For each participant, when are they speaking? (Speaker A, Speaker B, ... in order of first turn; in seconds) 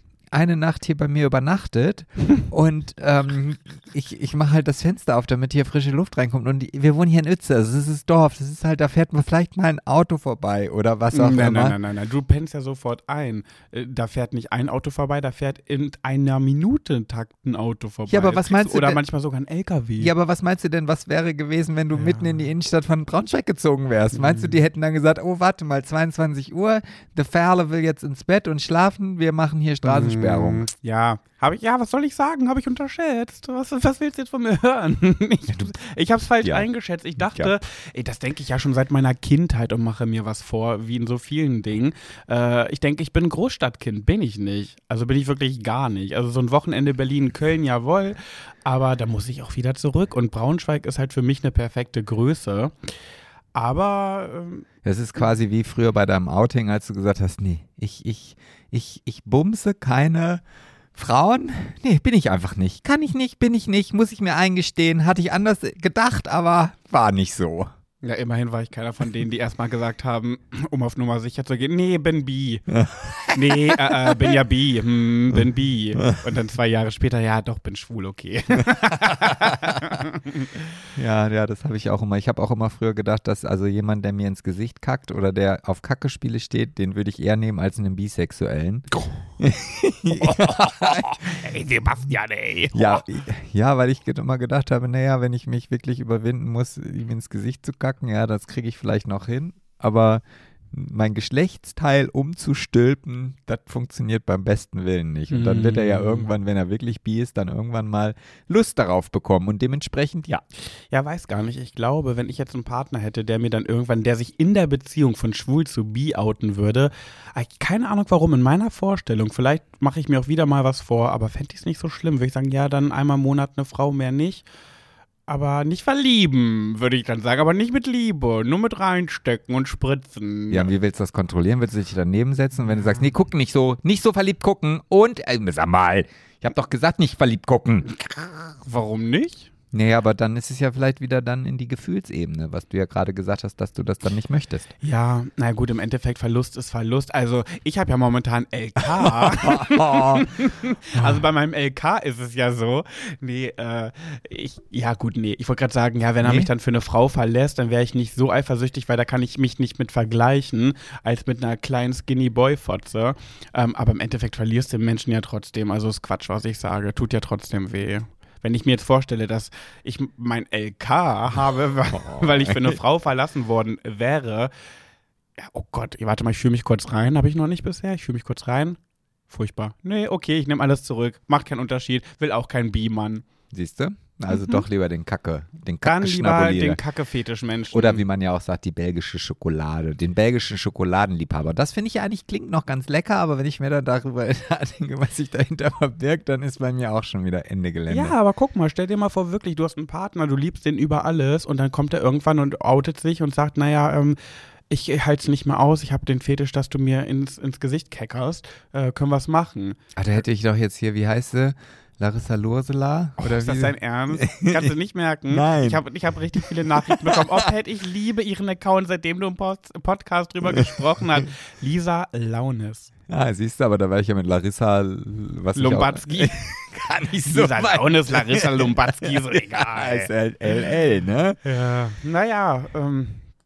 Speaker A: 0.3-11.7, 18.1-19.0, 20.0-30.7, 35.5-35.7, 36.4-36.7, 54.8-60.4, 60.9-67.7, 72.7-74.3, 80.9-91.4, 92.7-110.4, 130.5-137.9, 139.7-144.7, 149.0-150.3, 150.9-151.2, 156.2-156.5, 171.9-172.8, 183.5-186.8, 187.7-198.1, 209.9-214.7, 215.3-215.8, 216.7-217.4, 223.1-231.4
Speaker B: 11.1-20.1, 21.9-22.4, 24.1-24.6, 29.8-52.9, 53.5-54.7, 68.0-72.6, 73.3-80.6, 90.1-93.0, 105.3-106.3, 110.9-124.5, 125.3-130.7, 138.1-139.5, 144.8-174.5, 175.4-178.8, 179.3-183.2, 184.3-184.6, 185.8-188.0, 197.9-204.2, 204.7-209.8, 213.2-222.9, 225.6-226.4, 227.2-230.1, 231.4-233.2